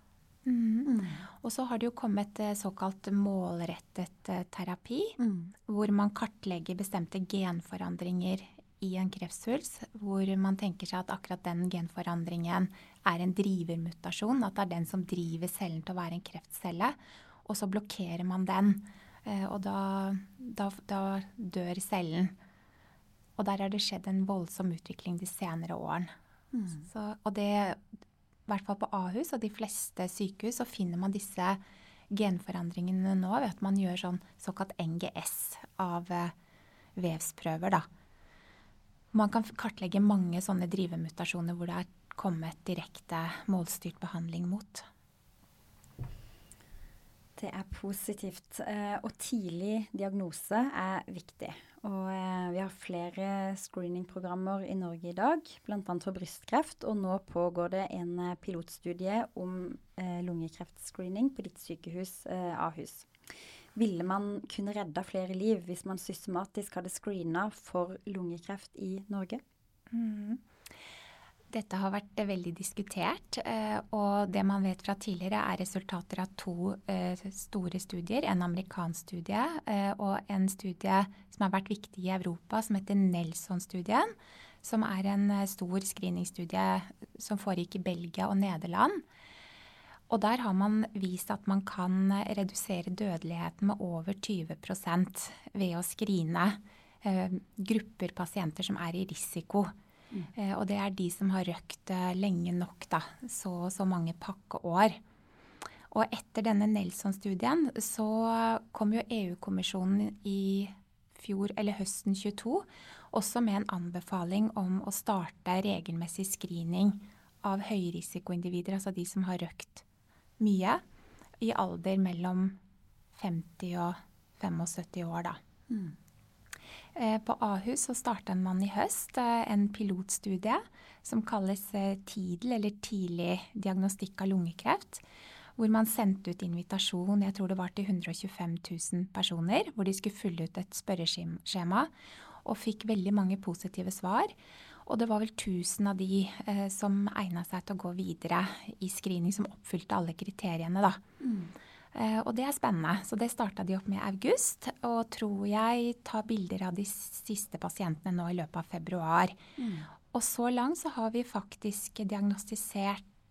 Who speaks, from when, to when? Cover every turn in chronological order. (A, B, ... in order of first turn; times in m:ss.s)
0:00.4-0:22.4 A
0:00.9-0:01.2 B
0:05.2-0:05.5 B
0:23.4-0:26.1 A
0:26.5-0:26.9 B
0:26.9-0:27.8 A
0:28.5-0:36.3 A
0:37.0-0:37.9 A
0:39.1-0:44.9 A
0:47.4-1:03.1 B
1:03.8-1:09.4 B
1:09.9-1:10.4 A
1:11.5-1:29.0 A
1:30.1-1:39.7 A
1:40.4-1:45.0 A
1:45.9-1:59.8 A
2:00.4-2:00.8 A
2:01.4-2:02.6 A
2:03.1-2:05.4 A
2:05.7-2:06.0 B
2:07.0-2:15.0 A
2:15.6-2:21.9 A
2:22.4-2:24.3 A
2:24.9-2:31.0 A
2:31.2-2:31.5 B
2:31.9-2:39.4 A
2:39.6-2:39.9 B
2:40.1-2:43.0 A